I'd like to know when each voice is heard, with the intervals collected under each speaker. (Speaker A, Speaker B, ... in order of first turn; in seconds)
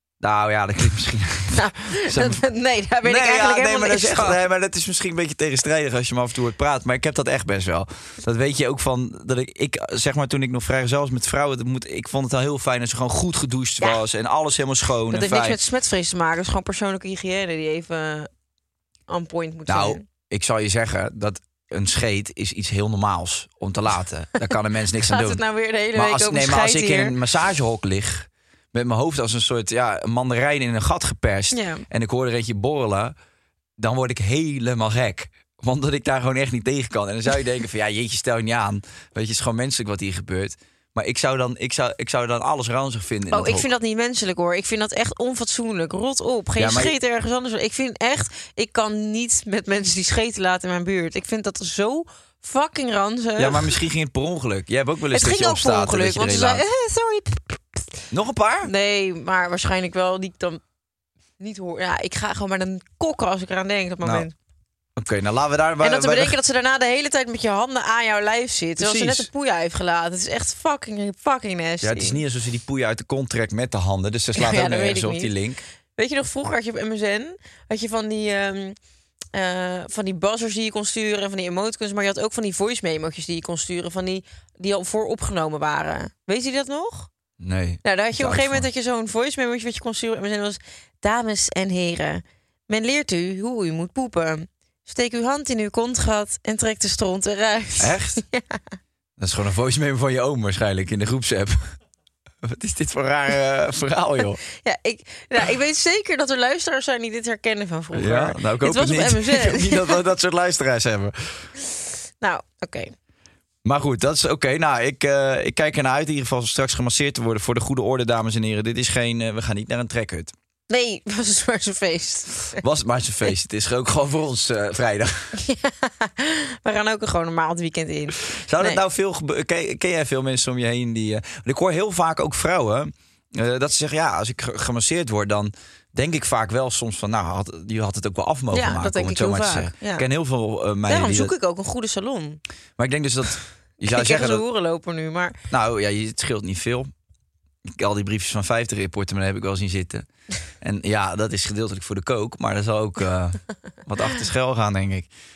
Speaker A: 0.2-2.4, 3.0-15.6, 19.7-25.4, 25.9-33.1, 33.8-43.7, 46.6-47.0, 53.4-56.6, 58.1-58.7, 65.0-66.4, 68.8-69.3, 71.8-75.6, 87.4-88.7, 97.8-98.2, 99.2-101.8, 102.4-104.4, 107.9-111.5, 113.6-120.3, 122.5-125.3, 128.3-141.3, 142.8-144.4, 145.5-146.9, 147.7-150.1, 150.6-155.1
Speaker B: 1.5-4.4, 15.1-18.3, 19.1-20.0, 25.0-27.1, 31.5-31.9, 43.3-53.8, 55.1-57.8, 58.6-60.6, 61.4-64.3, 65.8-72.2, 74.4-75.3, 76.0-78.8, 79.3-87.1, 87.8-98.6, 104.6-110.0, 112.2-112.9, 120.7-122.6, 125.4-128.8, 138.5-140.1, 140.9-142.4, 143.8-145.4